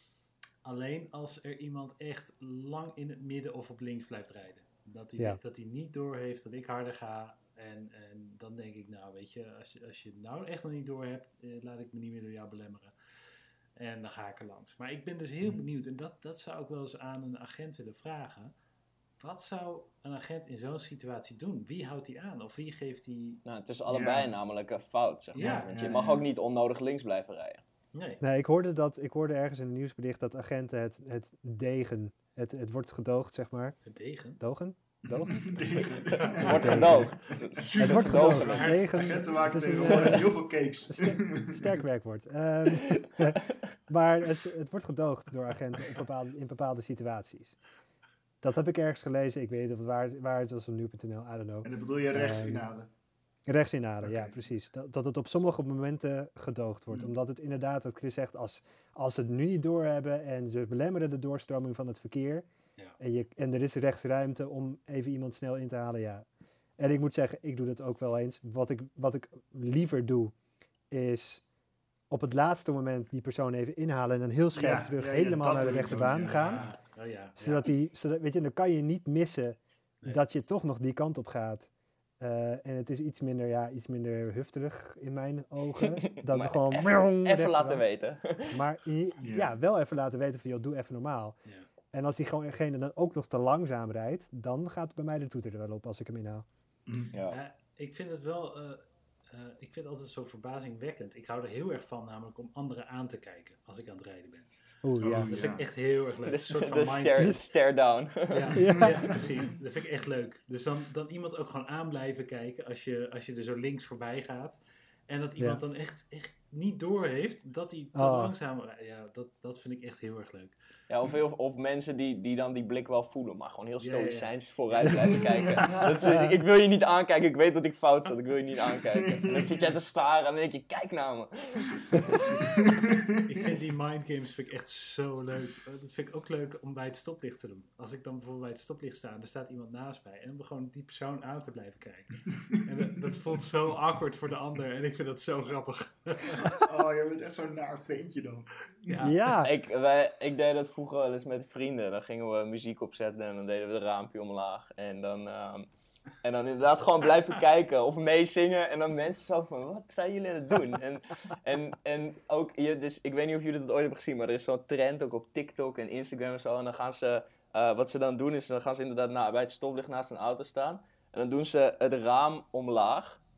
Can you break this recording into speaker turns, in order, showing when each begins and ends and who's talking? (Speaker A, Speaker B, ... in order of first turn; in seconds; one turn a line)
Speaker A: 0.6-12.9
Speaker A: 13.8-18.5
Speaker A: 19.2-23.4
Speaker B: 23.4-27.6
Speaker C: 23.9-24.3
Speaker A: 25.4-26.0
Speaker C: 25.7-26.2
Speaker A: 27.9-28.2
Speaker D: 28.2-33.8
Speaker A: 33.9-34.4
Speaker D: 34.4-35.6
Speaker C: 35.1-37.1
Speaker A: 36.2-40.2
Speaker B: 36.4-38.8
Speaker D: 36.5-37.1
Speaker D: 37.8-40.3
Speaker C: 38.9-41.7
Speaker D: 40.9-47.6
Speaker B: 42.7-43.4
Speaker D: 48.4-52.7
Speaker C: 51.6-52.9
Speaker D: 53.5-62.5
Speaker C: 54.0-54.4
Speaker D: 63.0-66.2
Speaker D: 66.8-70.3
Speaker D: 70.9-71.4
Speaker D: 72.1-76.6
Speaker C: 74.5-76.7
Speaker A: 76.3-77.7
Speaker D: 77.4-81.7
Speaker D: 82.2-87.8
Speaker B: 85.8-88.6
Speaker D: 88.5-91.4
Speaker C: 89.2-89.5
Speaker D: 91.9-96.5
Speaker C: 96.9-97.1
Speaker B: 97.1-97.4
Speaker A: 97.3-107.4
Speaker D: 104.8-105.3
Speaker C: 105.0-105.7
Speaker B: 106.2-108.8
Speaker A: 108.3-114.6
Speaker D: 108.5-109.1
Speaker A: 115.1-120.6
Speaker D: 118.0-118.3
Speaker B: 120.9-132.0
Speaker A: 123.8-125.2
Speaker C: 125.3-125.8
Speaker D: 126.1-126.3
Speaker C: 129.0-129.7
Speaker C: 131.9-133.1
Speaker A: 133.2-146.5
Speaker C: 146.4-149.0
Speaker A: 148.9-149.3
Speaker D: 149.0-149.5
Speaker B: 149.4-155.7
Speaker B: 156.2-173.2